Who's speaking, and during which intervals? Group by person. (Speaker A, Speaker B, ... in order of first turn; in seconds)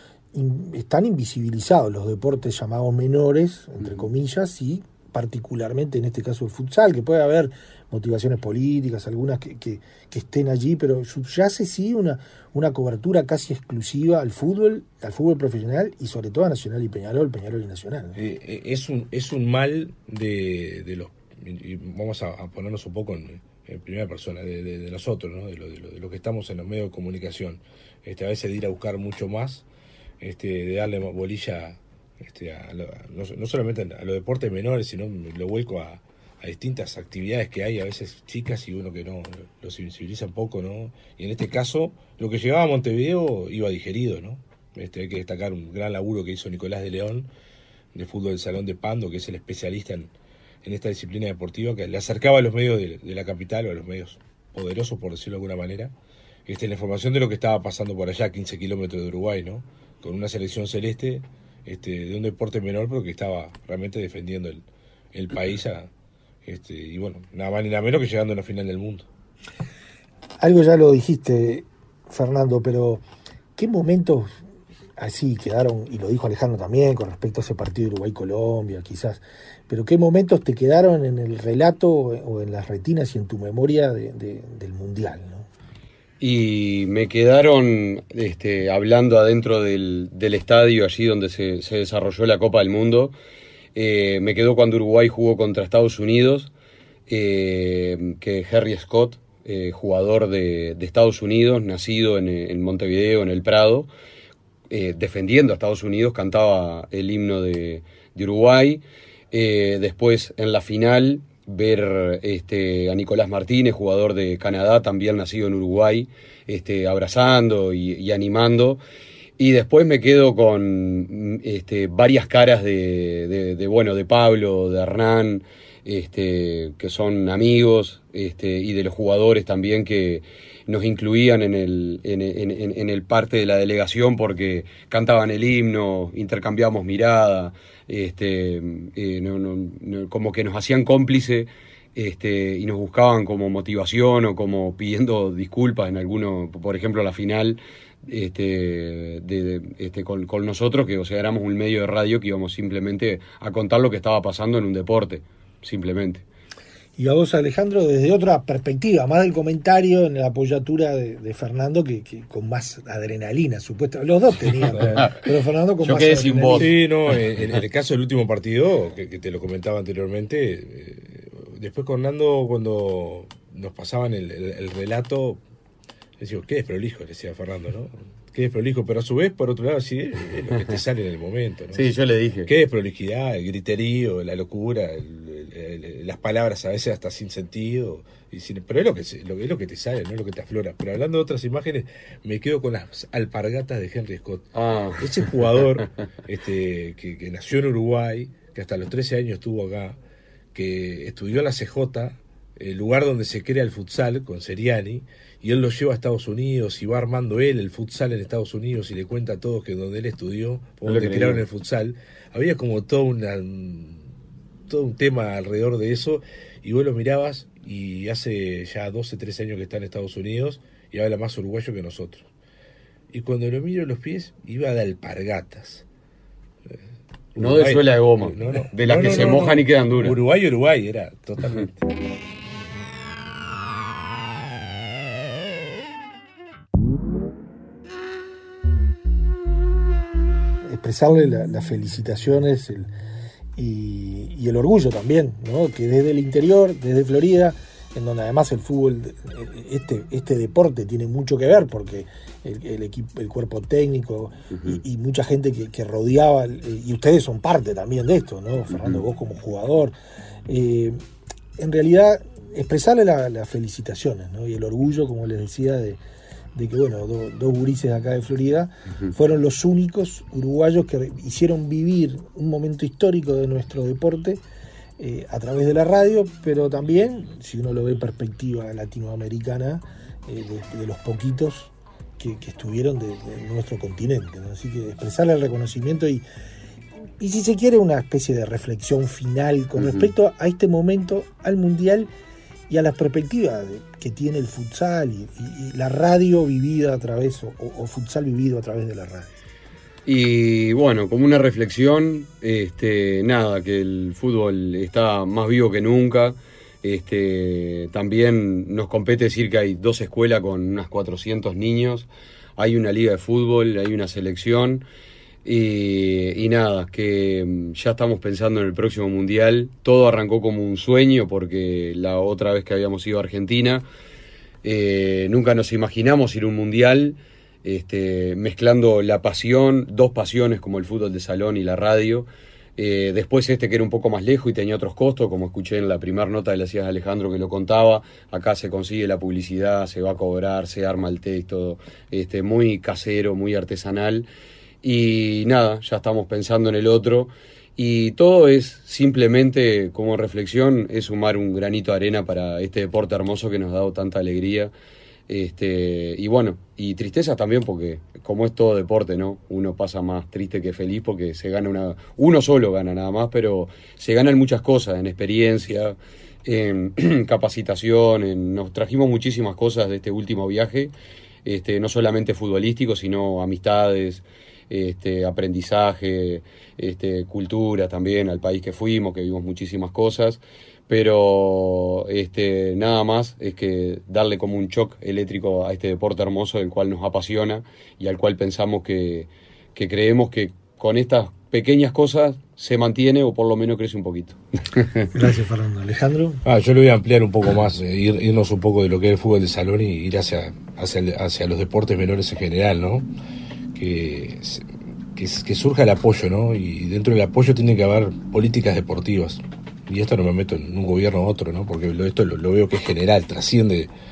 Speaker A: 0.3-18.2, 70.4-73.0, 73.5-74.3, 75.0-85.5, 157.0-166.7, 240.6-242.9, 243.6-259.9, 260.5-261.0, 261.6-266.0, 266.5-274.4, 275.0-286.2, 287.2-292.1, 292.7-299.3, 395.1-396.4
Speaker B: 18.1-29.6, 30.2-47.3, 47.9-50.1, 50.6-55.9, 56.5-65.9, 66.4-69.0, 166.5-175.4, 176.2-181.9, 182.4-194.5, 195.0-200.0, 200.5-214.0, 214.7-222.2, 223.1-225.8, 227.3-231.8, 396.4-403.1, 403.7-413.9
Speaker C: 86.2-93.1, 93.7-96.5, 97.1-103.9, 104.7-118.8, 119.4-156.2, 165.8-166.7, 181.7-182.5, 194.5-195.3, 210.8-211.4, 227.3-230.2, 254.5-254.8, 289.8-290.1, 300.0-314.8, 315.4-323.8, 324.6-344.3, 344.8-354.7, 355.3-370.9, 371.4-395.1